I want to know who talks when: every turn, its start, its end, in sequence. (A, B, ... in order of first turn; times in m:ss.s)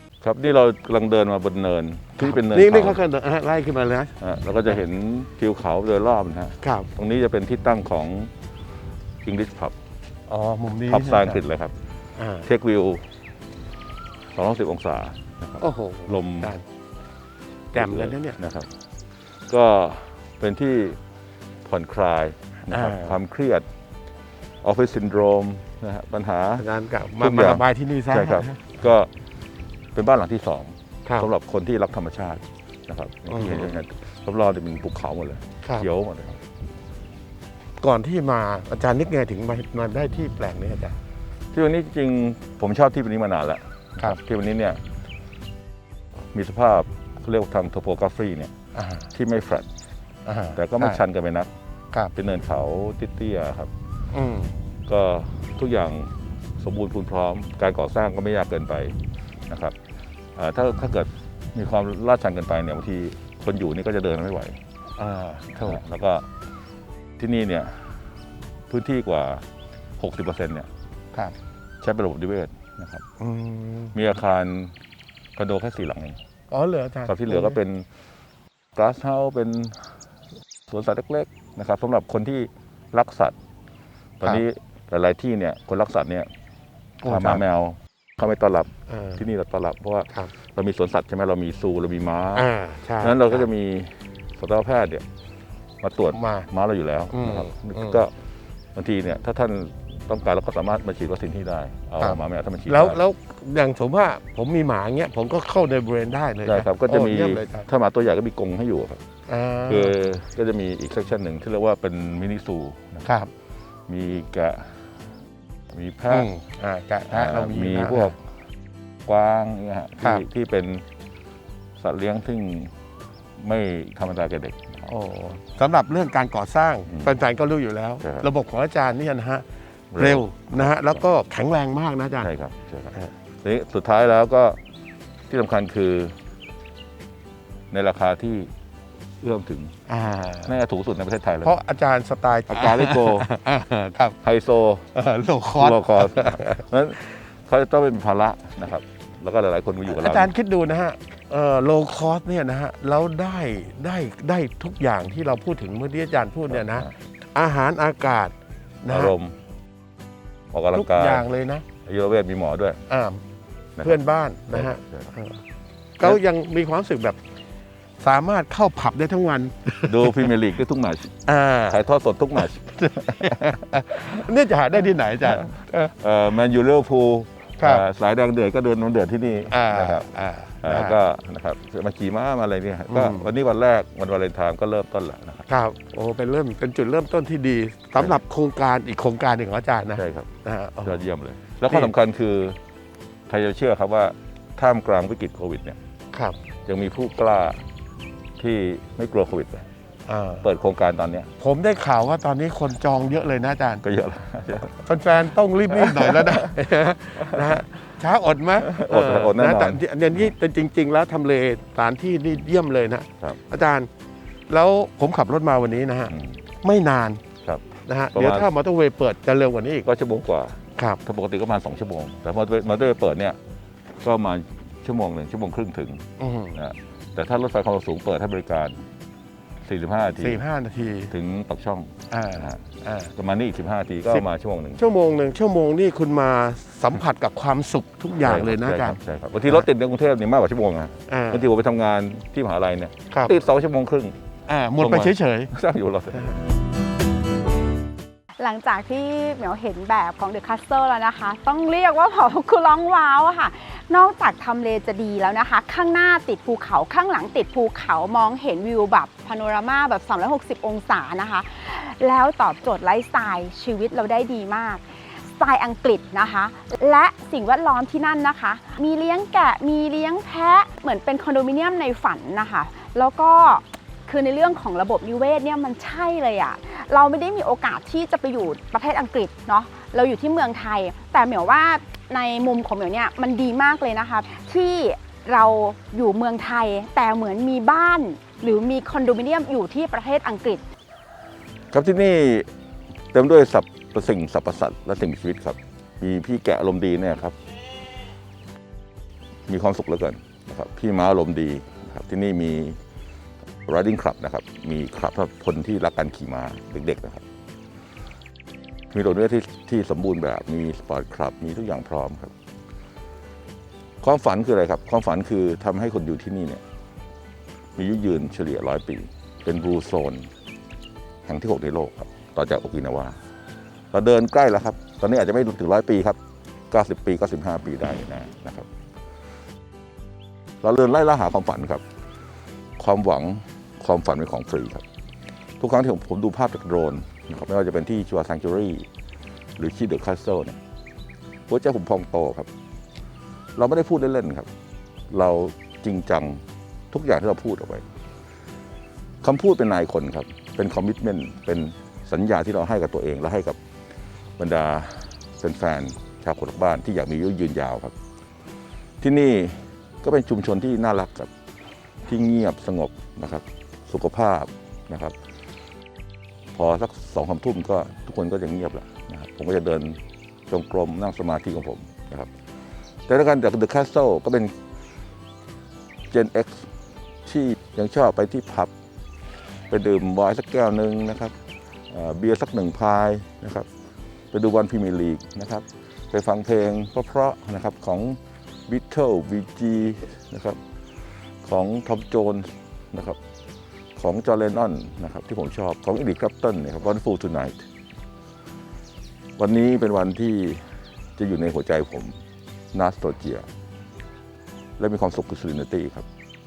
0:00.2-0:03.0 A
0:02.2-0:04.1 B
0:04.2-0:08.3 A
0:06.6-0:06.9 B
0:09.2-0:09.8 A
0:10.3-0:11.4 B
0:10.9-0:11.7 A
0:12.2-0:12.5 B
0:12.4-0:13.1 A
0:14.3-0:16.5 A
0:15.6-0:16.6 B
0:17.7-0:18.7 A
0:17.7-0:18.4 B
0:19.5-0:21.0 A
0:21.6-0:23.6 A
0:22.7-0:23.1 B
0:24.6-0:29.1 A
0:26.6-0:28.5 B
0:30.0-0:36.4 A
0:33.3-0:33.6 B
0:37.8-0:41.0 B
0:41.5-0:44.8 A
0:46.3-0:48.5 A
0:48.8-0:49.1 B
0:49.1-0:49.7 A
0:50.3-0:51.0 B
0:50.5-0:51.5 A
0:52.1-0:53.7 A
0:54.1-0:54.6 B
0:54.9-0:59.0 A
0:59.5-0:59.8 A
1:00.4-1:04.6 A
1:05.0-1:05.8 B
1:05.6-1:06.3 A
1:07.2-1:08.0 A
1:08.7-1:09.4 A
1:10.0-1:10.7 A
1:11.8-1:13.0 A
1:13.2-1:14.0 B
1:13.9-1:14.8 A
1:15.4-1:16.2 A
1:16.5-1:17.6 B
1:17.1-1:17.9 A
1:18.8-1:20.0 A
1:20.7-1:23.3 A
1:24.2-1:26.3 A
1:27.0-1:35.0 A
1:27.0-1:27.4 B
1:28.9-1:29.2 B
1:32.4-1:33.4 B
1:35.8-1:38.1 A
1:37.1-1:38.0 B
1:38.8-1:43.0 A
1:42.0-1:47.7 B
1:46.4-1:49.0 A
1:49.3-1:49.9 B
1:49.7-1:53.2 A
1:53.0-1:53.3 B
1:53.9-1:54.8 A
1:55.7-1:56.3 A
1:56.1-1:58.1 B
1:57.1-1:58.2 A
1:59.0-2:00.8 A
2:01.8-2:02.7 A
2:03.4-2:04.9 A
2:04.9-2:09.4 B
2:06.9-2:07.2 A
2:08.0-2:08.3 A
2:09.9-2:11.0 A
2:10.0-2:12.3 B
2:12.2-2:14.6 A
2:15.3-2:16.2 A
2:17.7-2:18.5 A
2:19.2-2:19.7 A
2:19.9-2:20.5 B
2:20.4-2:21.6 A
2:21.4-2:24.2 B
2:22.5-2:23.3 A
2:24.2-2:24.9 A
2:24.9-2:26.6 B
2:25.5-2:30.3 A
2:29.9-2:39.1 B
2:36.5-2:36.9 A
2:38.9-2:39.3 A
2:40.5-2:42.8 A
2:40.7-2:41.6 B
2:42.9-2:43.2 B
2:43.8-2:45.2 A
2:43.8-2:45.4 B
2:46.0-2:47.2 B
2:48.0-2:49.9 B
2:49.7-2:54.3 A
2:51.2-2:51.8 B
2:53.2-2:55.9 B
2:55.2-3:05.5 A
2:59.5-3:01.0 B
3:02.9-3:03.3 B
3:05.5-3:11.0 B
3:09.9-3:10.3 A
3:10.8-3:12.6 A
3:13.3-3:15.8 A
3:16.1-3:16.4 B
3:16.7-3:17.6 A
3:18.4-3:19.7 A
3:20.1-3:20.4 B
3:20.4-3:21.3 A
3:21.4-3:23.8 B
3:23.8-3:24.9 A
3:24.8-3:33.9 B
3:25.7-3:26.6 A
3:27.2-3:27.6 A
3:28.6-3:30.3 A
3:34.5-3:37.2 B
3:36.0-3:36.4 A
3:37.4-3:38.5 A
3:37.8-3:39.9 B
3:39.8-3:43.4 A
3:40.8-3:41.0 B
3:44.0-3:48.8 A
3:46.2-3:46.6 B
3:49.6-3:50.4 A
3:50.2-3:51.1 B
3:51.1-3:52.6 A
3:52.1-3:53.1 B
3:53.1-3:54.8 A
3:54.8-3:59.0 B
3:58.2-4:04.2 A
4:01.1-4:01.4 B
4:04.5-4:05.5 B
4:04.8-4:06.4 A
4:08.4-4:50.6 C
4:51.7-4:52.5 A
4:53.1-4:57.3 A
4:59.5-5:02.8 A
5:03.7-5:07.2 A
5:08.9-5:12.3 A
5:14.0-5:16.6 A
5:17.8-5:20.3 A
5:21.3-5:23.2 A
5:23.9-5:26.2 A
5:26.7-5:28.7 A
5:30.6-5:31.8 A
5:32.8-5:34.8 A
5:35.6-5:38.9 A
5:39.6-5:40.6 A
5:41.5-5:42.5 A
5:43.6-5:44.5 A
5:45.1-5:47.8 A
5:49.2-5:53.6 A
5:54.4-5:57.9 A
5:59.0-6:01.3 A
6:02.0-6:05.1 A
6:06.6-6:12.3 A
6:13.1-6:14.5 A
6:16.1-6:16.7 A
6:17.2-6:18.7 A
6:19.7-6:21.3 A
6:21.9-6:23.7 A
6:24.3-6:30.6 A
6:31.4-6:33.2 A
6:34.0-6:37.6 A
6:39.4-6:40.6 A
6:41.2-6:42.2 A
6:42.7-6:43.5 A
6:44.8-6:46.1 A